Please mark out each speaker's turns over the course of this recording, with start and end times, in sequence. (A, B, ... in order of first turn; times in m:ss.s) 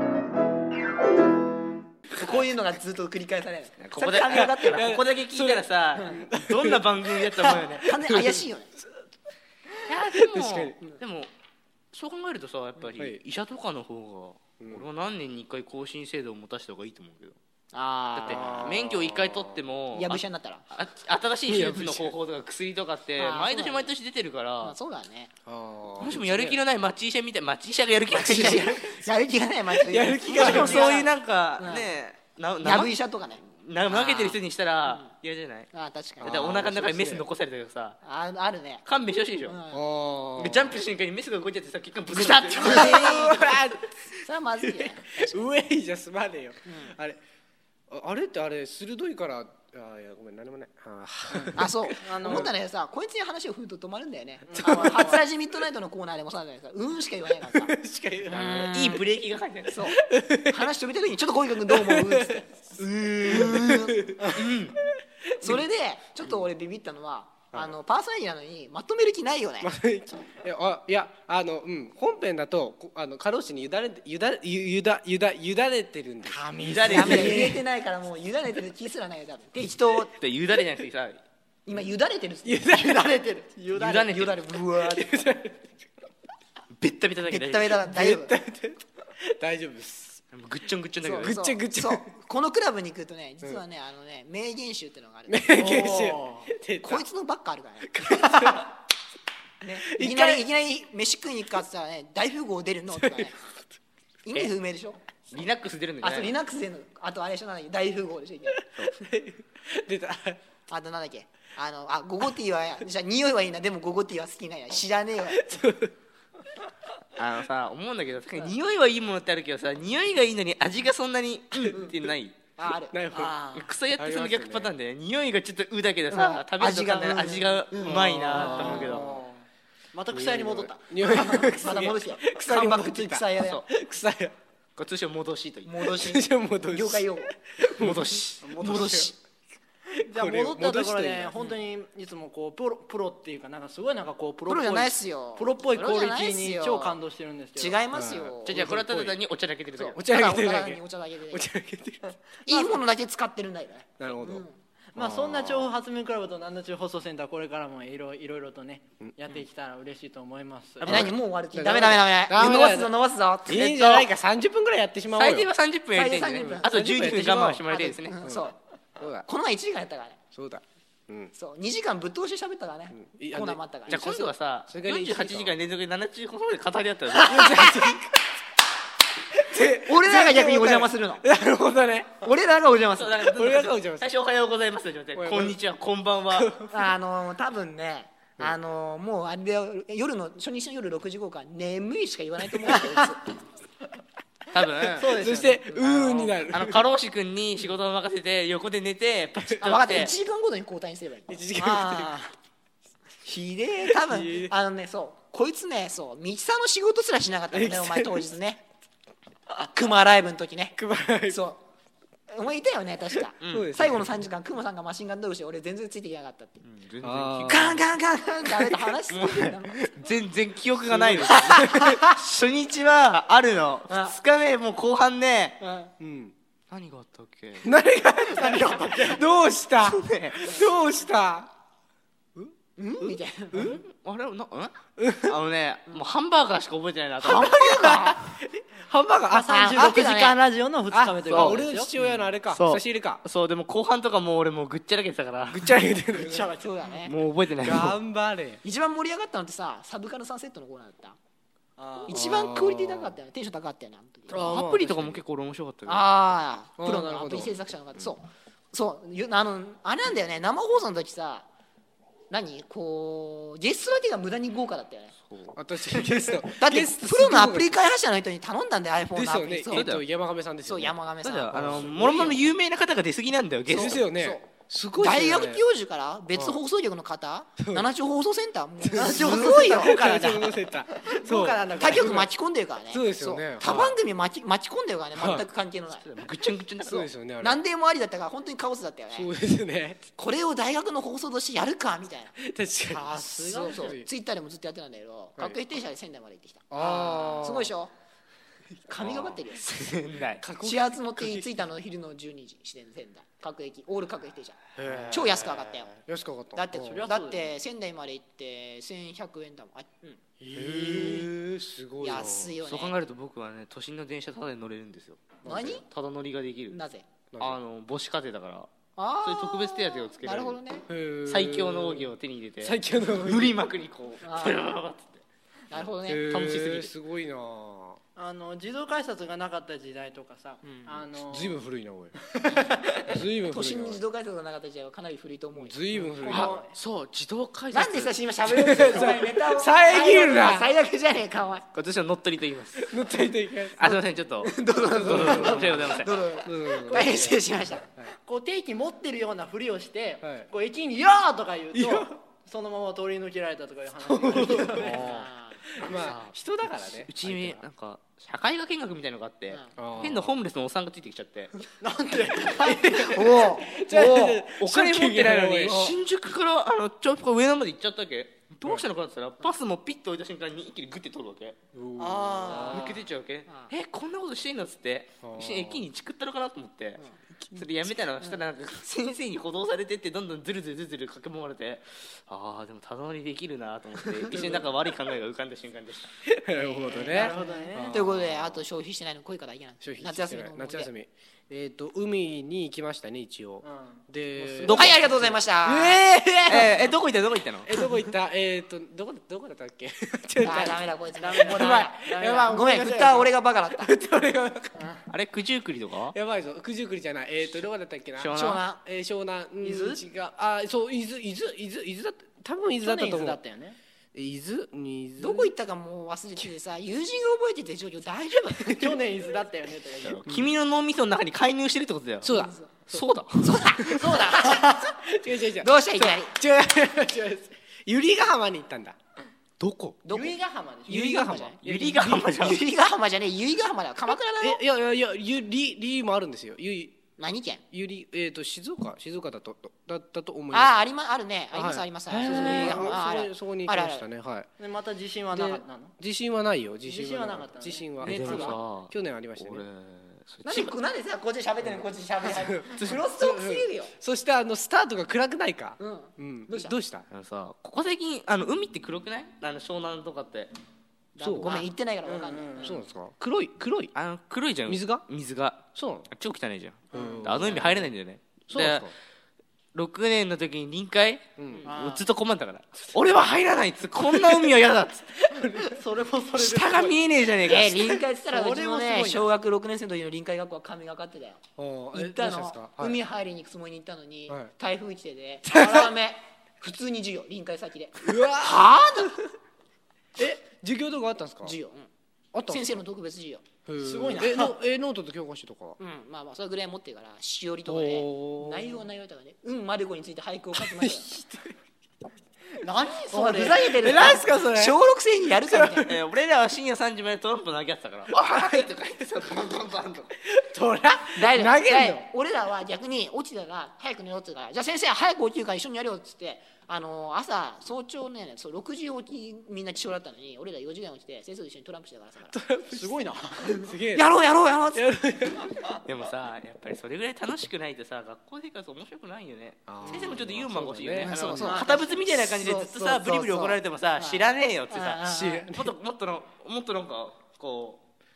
0:02.1-0:04.9 A
0:03.8-0:08.0 B
0:04.3-0:06.8 C
0:07.4-0:08.7 A
0:08.0-0:08.4 C
0:09.8-0:11.3 B
0:10.1-0:10.8 C
0:11.9-0:17.4 B
0:12.9-0:13.2 C
0:14.6-0:14.9 C
0:17.7-0:18.8 A
0:18.1-0:24.7 B
0:18.2-0:19.6 C
0:19.9-0:20.6 A
0:21.4-0:22.1 C
0:23.2-0:23.9 A
0:24.6-0:25.3 A
0:25.4-0:26.6 C
0:26.0-0:28.8 B
0:28.1-0:31.9 A
0:29.7-0:30.9 C
0:30.3-0:32.9 B
0:32.6-0:35.1 A
0:33.5-0:35.7 B
0:35.7-0:36.6 A
0:36.2-0:38.0 B
0:36.2-0:37.2 C
0:38.0-0:38.8 A
0:38.8-0:39.6 B
0:39.4-0:39.8 A
0:39.7-0:40.8 C
0:40.4-0:43.2 B
0:42.1-0:43.6 A
0:42.6-0:43.9 C
0:44.2-0:45.5 A
0:44.7-0:47.2 C
0:46.6-0:46.9 A
0:47.9-0:52.5 C
0:51.3-0:52.5 D
0:51.5-0:57.7 A
0:54.4-0:55.2 D
0:54.6-0:55.2 C
0:57.4-0:58.8 C
0:58.2-0:59.0 A
0:58.7-0:59.9 B
0:59.7-1:04.1 A
1:00.1-1:00.5 C
1:01.7-1:02.4 C
1:03.2-1:04.4 C
1:04.3-1:04.8 B
1:05.4-1:09.7 A
1:09.6-1:17.5 C
1:16.2-1:17.6 D
1:16.6-1:17.3 B
1:16.9-1:20.1 A
1:20.1-1:21.2 B
1:21.6-1:23.4 A
1:22.4-1:23.2 C
1:23.4-1:24.1 D
1:23.7-1:24.5 B
1:24.0-1:25.1 A
1:24.8-1:25.6 C
1:26.8-1:27.8 B
1:27.3-1:28.3 A
1:27.8-1:30.2 C
1:30.3-1:31.4 B
1:31.0-1:35.9 A
1:31.0-1:32.1 C
1:35.3-1:37.0 C
1:35.5-1:36.5 D
1:36.8-1:38.7 A
1:37.9-1:38.7 C
1:39.6-1:43.3 A
1:39.8-1:40.4 C
1:43.0-1:43.3 C
1:44.2-1:45.0 A
1:45.3-1:46.3 B
1:46.0-1:48.6 A
1:48.8-1:50.4 C
1:50.7-1:55.4 A
1:55.3-1:55.9 C
1:57.2-2:02.3 B
2:01.7-2:02.0 C
2:02.6-2:02.9 A
2:02.9-2:03.3 C
2:03.1-2:03.7 D
2:03.5-2:09.0 B
2:04.0-2:04.7 C
2:06.1-2:08.9 A
2:07.8-2:09.3 C
2:08.4-2:09.3 D
2:09.9-2:11.6 D
2:10.1-2:14.3 C
2:11.4-2:13.6 A
2:14.8-2:15.9 B
2:15.6-2:17.3 A
2:15.8-2:19.1 C
2:17.6-2:19.1 B
2:18.4-2:18.8 D
2:18.6-2:19.1 A
2:19.9-2:21.4 C
2:20.1-2:27.8 D
2:24.4-2:27.0 A
2:27.6-2:28.7 A
2:27.9-2:29.2 C
2:28.4-2:30.0 B
2:29.8-2:32.0 C
2:29.8-2:31.5 A
2:32.4-2:34.6 A
2:32.4-2:32.8 D
2:34.0-2:34.4 C
2:34.9-2:41.1 D
2:35.0-2:35.7 C
2:40.8-2:45.5 C
2:40.8-2:43.6 A
2:43.5-2:44.1 B
2:45.1-2:48.2 B
2:45.9-2:48.6 A
2:46.3-2:47.6 C
2:48.2-2:49.2 C
2:49.2-2:50.2 A
2:50.3-2:51.3 C
2:51.3-2:54.3 A
2:52.9-2:55.5 C
2:53.9-2:57.7 B
2:57.2-2:58.1 C
2:57.3-2:57.8 A
2:59.3-3:02.2 C
2:59.6-3:01.2 A
3:02.2-3:03.3 A
3:02.9-3:06.5 B
3:03.2-3:04.1 C
3:05.1-3:05.6 C
3:06.3-3:06.8 C
3:06.7-3:13.2 A
3:12.7-3:13.1 D
3:14.5-3:15.1 B
3:14.8-3:15.8 D
3:14.9-3:16.8 C
3:15.8-3:20.1 B
3:19.6-3:21.3 A
3:21.3-3:22.1 C
3:21.6-3:22.3 D
3:23.2-3:28.6 A
3:23.8-3:24.5 C
3:27.5-3:28.2 C
3:29.6-3:30.8 A
3:30.8-3:31.4 C
3:31.3-3:31.6 A
3:32.3-3:36.6 A
3:33.1-3:34.2 C
3:33.4-3:33.7 B
3:36.6-3:37.8 B
3:37.0-3:37.8 C
3:37.5-3:39.9 A
3:39.1-3:45.6 B
3:40.8-3:42.0 C
3:41.2-3:42.0 A
3:43.9-3:44.2 A
3:45.6-3:45.9 A
3:46.0-3:46.3 C
3:46.7-3:47.7 B
3:47.6-3:51.5 C
3:48.3-3:49.2 D
3:49.8-3:50.4 B
3:50.4-3:50.7 A
3:52.8-3:53.8 A
3:53.5-3:53.8 C
3:53.5-3:57.9 B
3:55.0-3:55.4 C
3:57.2-3:58.2 A
3:57.3-4:00.0 C
3:59.3-4:01.9 D
3:59.5-4:00.4 A
4:00.9-4:03.2 C
4:01.3-4:05.7 B
4:05.5-4:06.5 C
4:06.1-4:06.9 D
4:06.6-4:07.1 A
4:07.0-4:08.0 B
4:07.6-4:08.6 C
4:08.6-4:11.2 A
4:11.8-4:12.3 D
4:12.0-4:14.6 A
4:12.1-4:13.2 C
4:14.3-4:15.2 C
4:14.3-4:16.1 B
4:15.8-4:21.4 A
4:16.8-4:17.5 C
4:22.3-4:25.1 A
4:25.3-4:25.5 B
4:25.5-4:27.8 C
4:26.5-4:29.9 A
4:29.1-4:31.0 C
4:29.7-4:30.0 B
4:30.6-4:32.4 A
4:31.2-4:34.0 B
4:31.5-4:32.4 C
4:33.7-4:34.4 A
4:33.7-4:35.6 C
4:35.0-4:40.0 A
4:36.3-4:36.6 C
4:37.6-4:37.9 C
4:38.8-4:42.3 C
4:38.9-4:42.2 D
4:41.8-4:46.1 A
4:42.9-4:44.0 C
4:45.2-4:45.4 C
4:45.9-4:47.1 B
4:46.8-4:47.6 C
4:47.4-4:49.3 A
4:49.1-4:50.1 C
4:50.2-4:52.3 A
4:52.4-4:54.1 C
4:52.9-4:53.9 D
4:53.5-4:57.9 A
4:56.7-4:57.7 C
4:58.9-4:59.6 A
4:59.0-4:59.4 C
4:59.5-5:00.4 B
5:00.4-5:01.6 C
5:00.6-5:04.6 A
5:04.8-5:07.1 C
5:04.9-5:05.2 B
5:05.1-5:05.9 A
5:06.5-5:10.2 A
5:06.8-5:07.5 D
5:10.4-5:12.3 C
5:10.7-5:11.3 B
5:12.0-5:13.0 A
5:12.1-5:15.4 B
5:15.4-5:15.8 C
5:15.4-5:15.8 A
5:15.9-5:16.8 B
5:16.7-5:17.0 A
5:17.3-5:17.6 C
5:17.4-5:20.6 B
5:19.0-5:20.9 A
5:20.9-5:23.6 C
5:21.2-5:25.2 B
5:24.2-5:24.7 A
5:25.7-5:26.3 A
5:26.0-5:28.0 C
5:26.3-5:26.9 B
5:28.2-5:31.6 D
5:30.6-5:31.0 A
5:31.3-5:32.2 C
5:32.3-5:33.1 D
5:32.9-5:34.0 C
5:33.5-5:36.5 A
5:35.5-5:36.6 C
5:36.2-5:36.7 D
5:36.3-5:38.2 B
5:37.7-5:41.7 A
5:38.4-5:40.7 C
5:41.7-5:42.9 B
5:42.8-5:43.9 C
5:43.8-5:46.2 B
5:43.9-5:47.8 A
5:44.8-5:47.4 C
5:46.9-5:47.3 D
5:48.2-5:54.9 D
5:50.2-5:50.5 C
5:51.7-5:52.1 C
5:54.0-5:55.0 C
5:54.4-5:55.3 B
5:54.8-5:55.6 A
5:55.7-5:57.6 C
5:55.9-5:56.3 B
5:56.9-6:01.5 B
5:59.8-6:00.3 C
6:01.8-6:03.4 D
6:02.5-6:06.0 C
6:02.9-6:04.4 A
6:04.6-6:11.6 B
6:11.7-6:13.0 C
6:12.0-6:13.0 D
6:12.6-6:17.0 B
6:13.5-6:13.7 A
6:15.2-6:15.8 C
6:17.5-6:26.1 B
6:24.1-6:24.6 A
6:26.2-6:28.6 C
6:26.6-6:30.9 A
6:27.1-6:27.9 D
6:29.8-6:36.9 C
6:33.6-6:35.0 D
6:34.7-6:36.1 A
6:36.5-6:37.7 B
6:37.6-6:40.9 C
6:40.4-6:41.9 A
6:41.2-6:42.6 D
6:41.5-6:44.7 C
6:42.5-6:43.9 A
6:44.8-6:45.0 D
6:45.1-6:46.1 B
6:46.1-6:53.4 C
6:48.2-6:48.6 B
6:48.3-6:48.8 A
6:49.6-6:50.0 D
6:52.8-6:53.8 D
6:54.1-6:55.5 C
6:55.2-6:58.9 A
6:58.8-7:00.2 D
7:00.0-7:02.3 B
7:02.2-7:02.6 C
7:02.3-7:02.8 A
7:02.9-7:03.7 B
7:03.4-7:05.0 A
7:03.9-7:04.6 D
7:05.0-7:09.0 C
7:05.6-7:06.3 A
7:09.6-7:10.0 B
7:10.0-7:10.3 A
7:10.1-7:11.1 D
7:10.9-7:12.3 C
7:10.9-7:11.6 A
7:11.6-7:12.6 B
7:12.4-7:14.6 A
7:14.4-7:17.0 C
7:17.2-7:17.6 A
7:17.7-7:20.8 C
7:20.5-7:24.1 A
7:21.5-7:24.5 C
7:22.1-7:22.9 B
7:24.6-7:25.9 D
7:25.3-7:29.6 C
7:26.8-7:28.6 D
7:28.0-7:30.8 B
7:30.4-7:33.9 A
7:32.2-7:37.1 C
7:32.8-7:33.0 B
7:35.8-7:36.7 A
7:37.1-7:40.5 B
7:41.1-7:42.8 A
7:41.2-7:41.6 C
7:42.0-7:42.8 D
7:42.6-7:43.9 C
7:43.5-7:48.9 B
7:44.7-7:45.0 C
7:45.7-7:46.1 C
7:46.9-7:47.9 C
7:46.9-7:47.2 D
7:48.5-7:48.9 C
7:49.7-7:55.1 B
7:51.4-7:51.7 C
7:51.6-7:52.1 D
7:55.2-7:55.8 C
7:55.5-7:57.0 D
7:56.4-7:58.0 B
7:57.4-8:01.4 A
7:58.3-7:59.3 D
8:01.6-8:03.0 C
8:01.9-8:09.2 A
8:05.5-8:05.9 C
8:08.0-8:09.1 C
8:10.2-8:11.6 C
8:11.4-8:11.9 A
8:12.3-8:12.8 C
8:12.5-8:13.4 A
8:13.6-8:15.8 C
8:13.8-8:14.6 D
8:15.8-8:21.1 A
8:17.6-8:18.8 C
8:20.6-8:21.5 C
8:22.6-8:24.0 D
8:23.1-8:25.9 A
8:23.7-8:24.8 C
8:25.4-8:26.0 C
8:25.8-8:30.1 B
8:30.3-8:32.0 C
8:31.1-8:42.3 A
8:42.3-8:44.1 C
8:42.7-8:43.6 D
8:43.9-8:44.8 A
8:44.7-8:45.8 C
8:45.8-8:57.8 B
8:49.7-8:51.6 C
8:51.0-8:53.6 A
8:54.7-8:55.5 A
8:55.0-8:55.7 C